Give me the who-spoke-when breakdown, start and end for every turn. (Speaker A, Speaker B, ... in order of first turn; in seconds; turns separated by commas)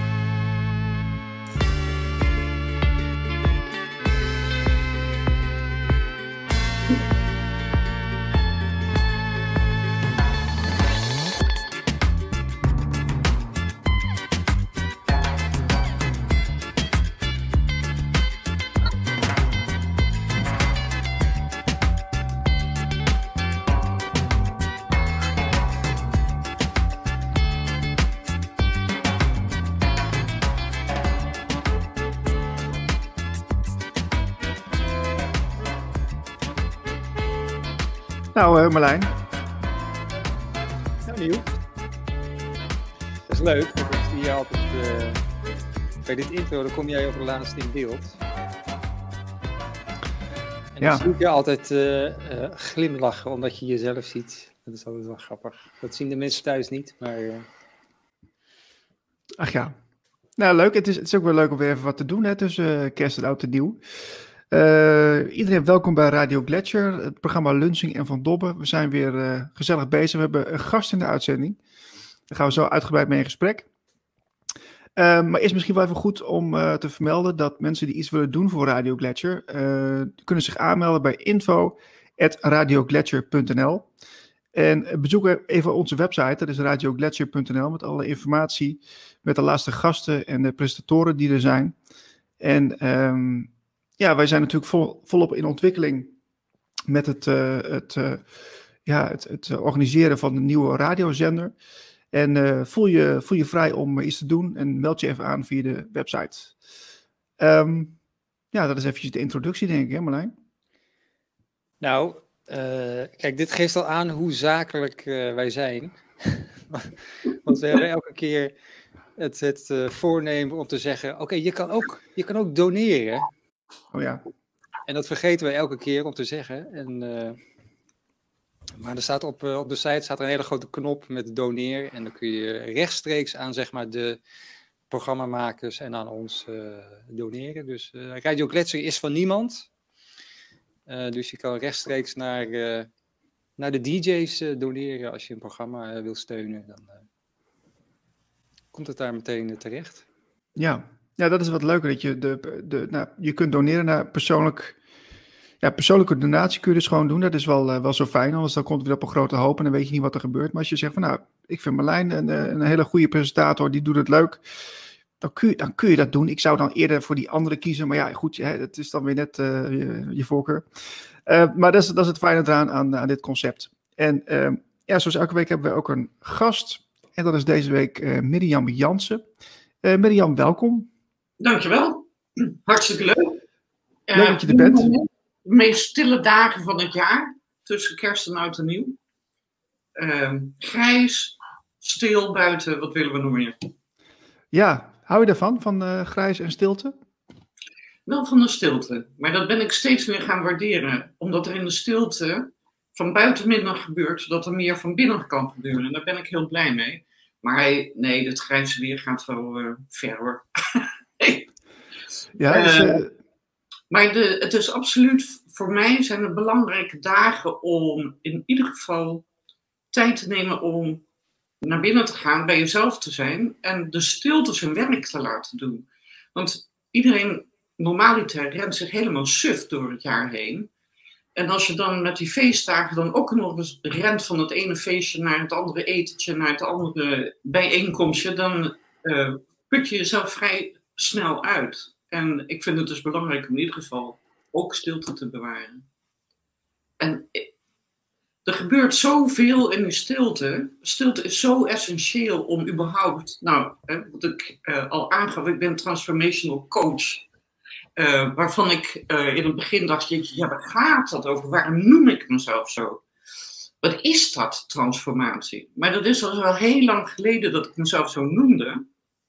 Speaker A: 38.3-39.1, Speaker B: 41.0-41.5, Speaker B: 43.3-45.2, Speaker B: 46.0-48.2, Speaker B: 50.7-57.5, Speaker A: 50.8-51.0, Speaker A: 59.4-59.8, Speaker A: 60.4-71.6, Speaker A: 72.3-73.7, Speaker A: 75.0-83.9, Speaker A: 84.5-91.8, Speaker A: 92.4-96.1, Speaker A: 96.9-98.3, Speaker A: 98.8-101.5, Speaker A: 102.1-106.5, Speaker A: 107.4-108.0, Speaker A: 108.5-110.3, Speaker B: 111.8-118.5, Speaker B: 119.2-123.3, Speaker A: 123.9-124.2, Speaker B: 124.9-127.4, Speaker B: 128.8-134.2, Speaker B: 134.9-139.7, Speaker B: 140.9-142.9, Speaker B: 143.6-147.1, Speaker B: 148.7-150.0, Speaker A: 150.6-154.8, Speaker A: 155.6-164.4, Speaker A: 165.2-170.7, Speaker A: 171.2-179.2, Speaker A: 179.8-180.9, Speaker C: 181.4-183.4, Speaker C: 184.1-189.0, Speaker A: 184.1-184.9, Speaker C: 190.0-193.6, Speaker A: 194.5-196.9, Speaker C: 198.1-211.5, Speaker A: 212.4-213.1, Speaker C: 212.5-213.0, Speaker C: 213.9-219.2, Speaker C: 219.9-221.0, Speaker C: 221.6-230.7, Speaker C: 231.3-245.8, Speaker C: 247.0-247.5, Speaker C: 248.4-257.2, Speaker C: 258.0-263.0, Speaker C: 263.8-268.8